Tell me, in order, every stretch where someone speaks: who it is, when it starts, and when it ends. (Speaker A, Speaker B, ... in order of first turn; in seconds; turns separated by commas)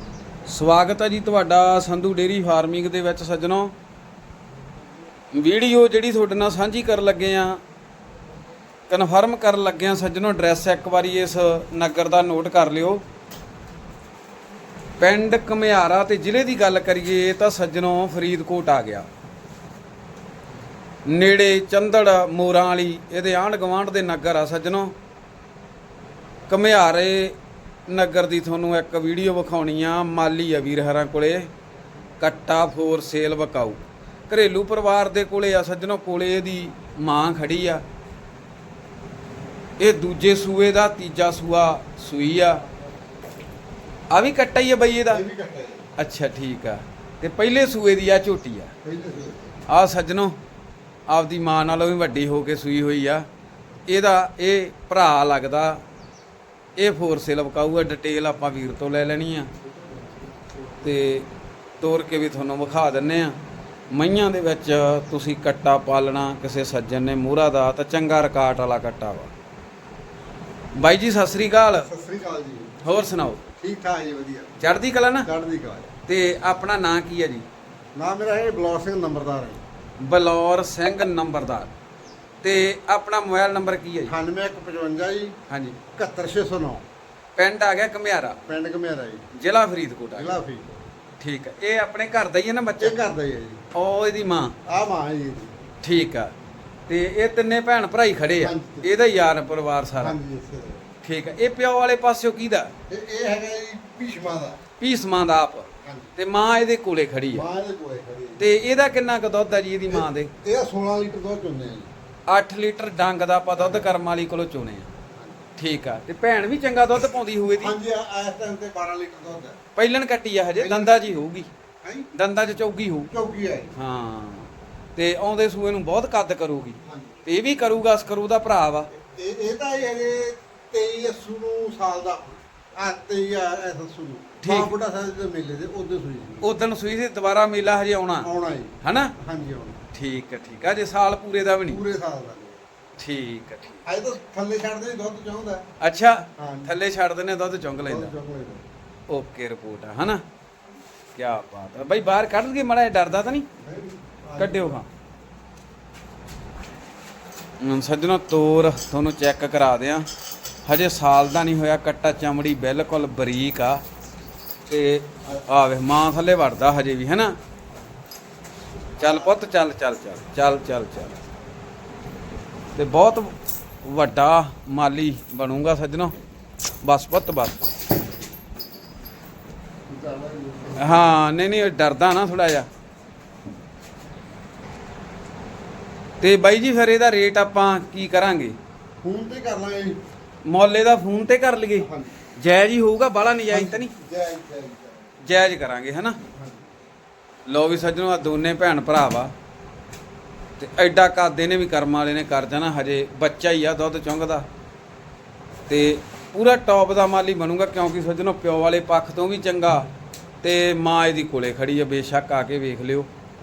Speaker A: 0.5-3.7, Speaker A: 5.3-7.6, Speaker A: 8.9-13.0, Speaker A: 15.0-19.1, Speaker A: 21.1-24.9, Speaker A: 26.5-31.5, Speaker A: 32.2-37.8, Speaker A: 39.8-42.6, Speaker A: 44.1-45.2, Speaker B: 45.1-45.9, Speaker A: 46.0-48.7, Speaker B: 48.8-49.5, Speaker A: 49.7-50.4, Speaker A: 51.1-53.2, Speaker A: 53.9-55.8, Speaker A: 56.8-59.5, Speaker A: 60.8-61.3, Speaker A: 61.8-63.4, Speaker A: 63.9-69.3, Speaker A: 70.8-71.9, Speaker B: 71.8-72.8, Speaker A: 72.8-73.4, Speaker B: 73.6-74.5, Speaker A: 74.6-75.3, Speaker B: 75.2-75.9, Speaker A: 76.0-77.5, Speaker B: 78.0-79.6, Speaker A: 80.0-81.7, Speaker A: 82.4-84.1, Speaker B: 84.1-85.3, Speaker A: 85.5-85.8, Speaker B: 85.9-86.8, Speaker A: 87.3-88.4, Speaker B: 88.5-89.2, Speaker A: 89.3-90.4, Speaker B: 90.2-90.8, Speaker A: 91.2-93.0, Speaker B: 92.8-93.6, Speaker A: 93.7-94.5, Speaker B: 94.7-95.5, Speaker A: 95.8-96.3, Speaker A: 96.9-100.2, Speaker B: 98.4-98.9, Speaker B: 100.0-100.9, Speaker A: 101.0-102.7, Speaker B: 102.9-104.6, Speaker A: 104.8-107.5, Speaker B: 105.8-106.1, Speaker B: 107.3-108.5, Speaker A: 108.4-110.3, Speaker B: 109.9-111.9, Speaker A: 112.3-114.9, Speaker B: 113.5-113.9, Speaker B: 115.1-115.4, Speaker A: 115.6-117.8, Speaker B: 117.4-119.6, Speaker A: 119.8-121.5, Speaker B: 120.6-121.2, Speaker B: 121.8-122.1, Speaker A: 122.1-123.1, Speaker B: 123.1-123.7, Speaker A: 123.7-128.9, Speaker B: 126.8-127.2, Speaker B: 129.0-136.5, Speaker A: 134.4-134.7, Speaker A: 136.4-138.3, Speaker B: 138.2-139.8, Speaker A: 138.8-139.1, Speaker A: 139.9-141.8, Speaker B: 141.7-142.6, Speaker A: 143.0-143.8, Speaker B: 143.8-145.6, Speaker A: 145.8-148.1, Speaker B: 146.4-146.7, Speaker B: 147.8-148.6, Speaker A: 149.1-150.2, Speaker A: 151.1-153.5, Speaker B: 153.6-154.8, Speaker A: 154.4-154.9, Speaker A: 157.6-160.1, Speaker A: 160.7-163.8, Speaker A: 164.7-167.3, Speaker B: 169.0-169.3, Speaker A: 169.0-171.2, Speaker A: 172.7-176.1, Speaker A: 176.8-177.6, Speaker B: 179.9-181.1, Speaker A: 180.8-182.7, Speaker A: 186.2-188.6, Speaker B: 189.0-190.0, Speaker A: 190.4-193.9, Speaker B: 191.8-192.2, Speaker B: 193.5-195.1, Speaker A: 195.2-196.2, Speaker B: 196.3-196.7, Speaker A: 197.5-199.3, Speaker A: 200.6-204.5, Speaker A: 205.7-209.9, Speaker A: 210.4-213.1